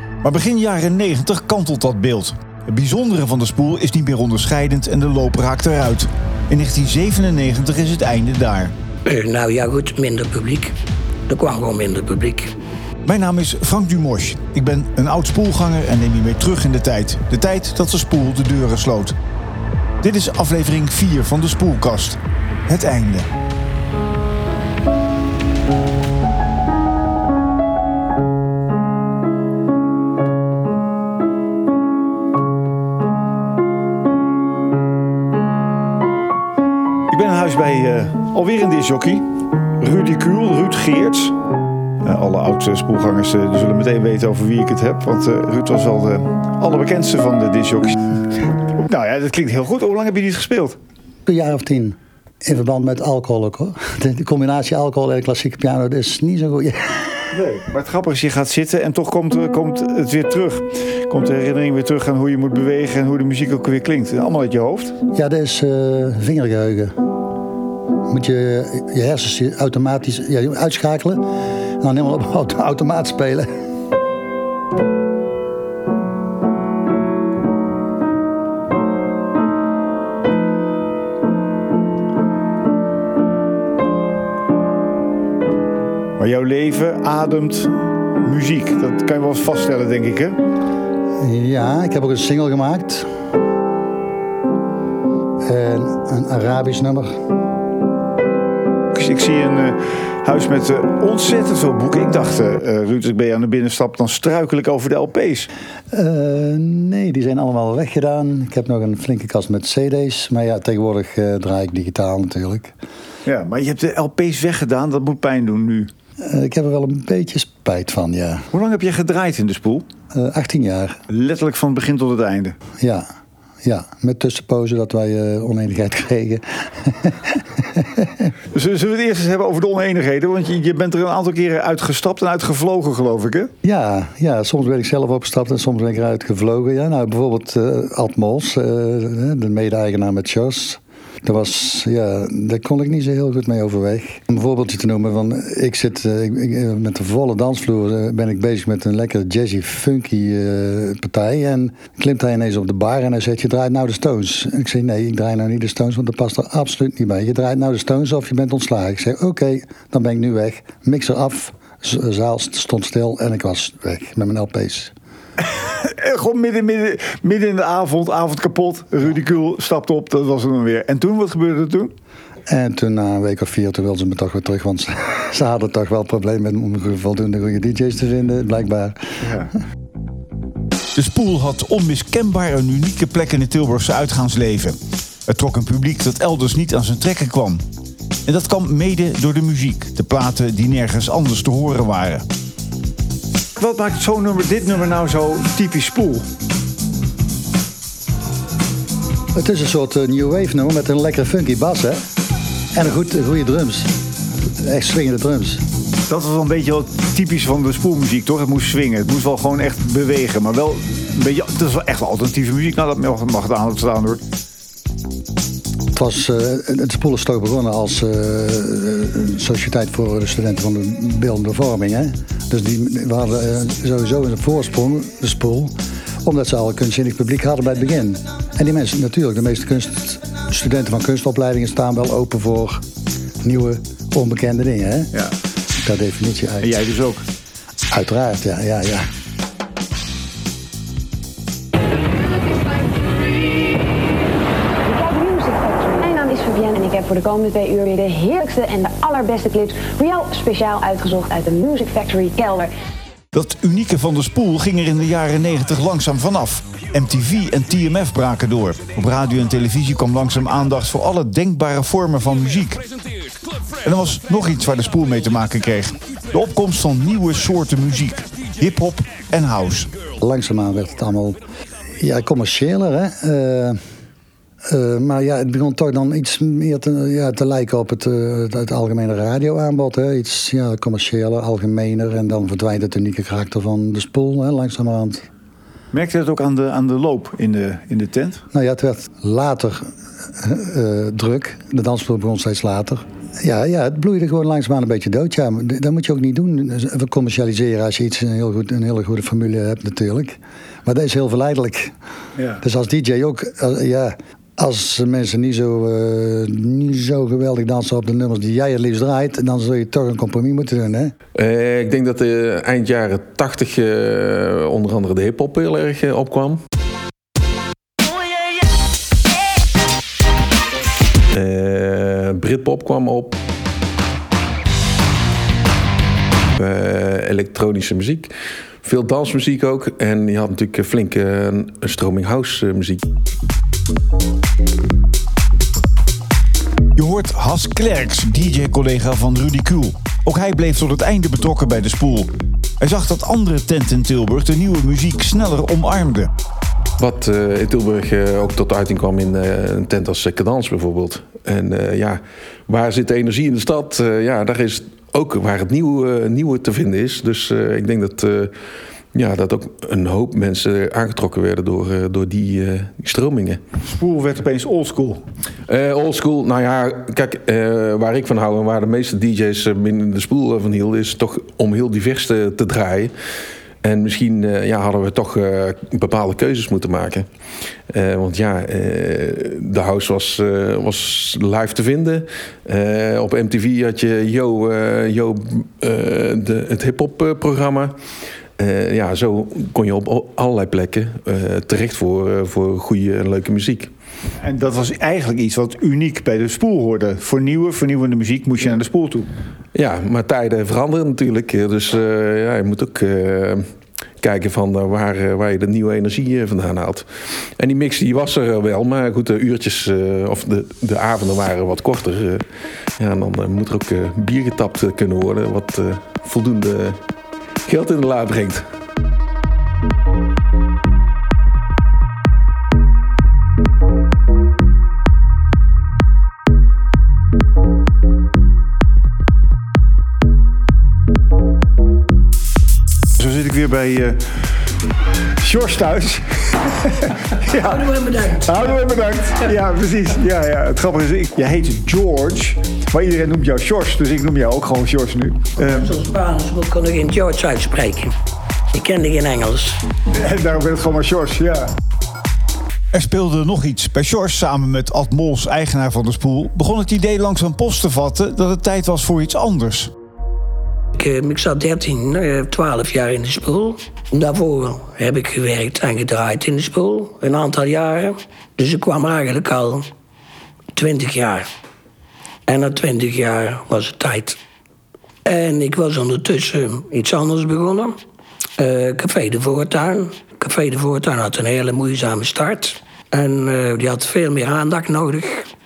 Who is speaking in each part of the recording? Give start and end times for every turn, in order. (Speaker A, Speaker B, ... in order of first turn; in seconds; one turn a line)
Speaker A: 0.2-8.7
Speaker B: 9.1-10.7
Speaker B: 11.3-12.5
Speaker A: 13.0-19.1
Speaker A: 20.0-23.3
Speaker A: 37.1-39.2
Speaker A: 39.8-41.3
Speaker A: 42.0-48.0
Speaker A: 48.7-50.8
Speaker C: 51.2-57.2
Speaker A: 57.3-65.0
Speaker C: 65.1-66.9
Speaker C: 68.1-71.2
Speaker C: 71.8-73.5
Speaker A: 86.2-90.4
Speaker C: 91.2-93.1
Speaker C: 95.4-97.1
Speaker A: 98.9-105.5
Speaker C: 105.9-112.7
Speaker A: 113.2-115.9
Speaker C: 116.2-118.4
Speaker A: 118.5-119.8
Speaker C: 120.1-121.0
Speaker A: 121.1-122.5
Speaker C: 122.8-123.0
Speaker C: 123.6-128.3
Speaker A: 128.5-133.5
Speaker C: 133.6-164.9
Speaker A: 165.4-171.9
Speaker C: 172.5-179.0
Speaker A: 179.2-179.5
Speaker A: 180.9-187.6
Speaker A: 188.2-192.2
Speaker A: 193.6-196.2
Speaker C: 199.3-202.0
Speaker C: 202.7-203.9
Speaker C: 204.6-205.6
Speaker A: 206.1-214.2
Speaker C: 215.9-232.8
Speaker C: 233.4-235.1
Speaker C: 235.8-236.7
Speaker A: 236.6-237.2
Speaker C: 237.9-239.0
Speaker D: 244.8-252.7
Speaker A: 253.3-262.8
Speaker A: 263.8-269.9
Speaker C: 270.2-271.4
Speaker C: 272.0-273.8
Speaker C: 274.7-285.2
Speaker A: 285.9-288.4
Speaker C: 288.5-289.8
Speaker C: 290.4-301.9
Speaker A: 302.4-302.6
Speaker C: 302.6-311.1
Speaker E: 311.3-316.6
Speaker E: 321.3-323.4
Speaker E: 326.5-328.3
Speaker E: 328.8-333.0
Speaker A: 336.9-342.3
Speaker A: 342.8-346.3
Speaker E: 347.0-358.5
Speaker E: 359.1-363.6
Speaker A: 363.8-365.2
Speaker E: 365.7-373.1
Speaker E: 373.8-377.2
Speaker E: 377.9-387.9
Speaker E: 388.6-393.9
Speaker A: 394.4-399.3
Speaker E: 399.7-403.6
Speaker E: 404.2-407.1
Speaker E: 407.6-412.4
Speaker E: 413.0-417.0
Speaker E: 417.6-418.6
Speaker A: 433.1-434.3
Speaker A: 435.4-437.9
Speaker B: 437.5-438.9
Speaker A: 438.4-445.9
Speaker B: 445.7-448.1
Speaker B: 448.7-449.8
Speaker A: 450.1-451.7
Speaker A: 452.9-459.9
Speaker B: 460.9-469.8
Speaker B: 470.7-471.5
Speaker B: 472.5-474.4
Speaker B: 475.2-477.9
Speaker B: 478.6-485.5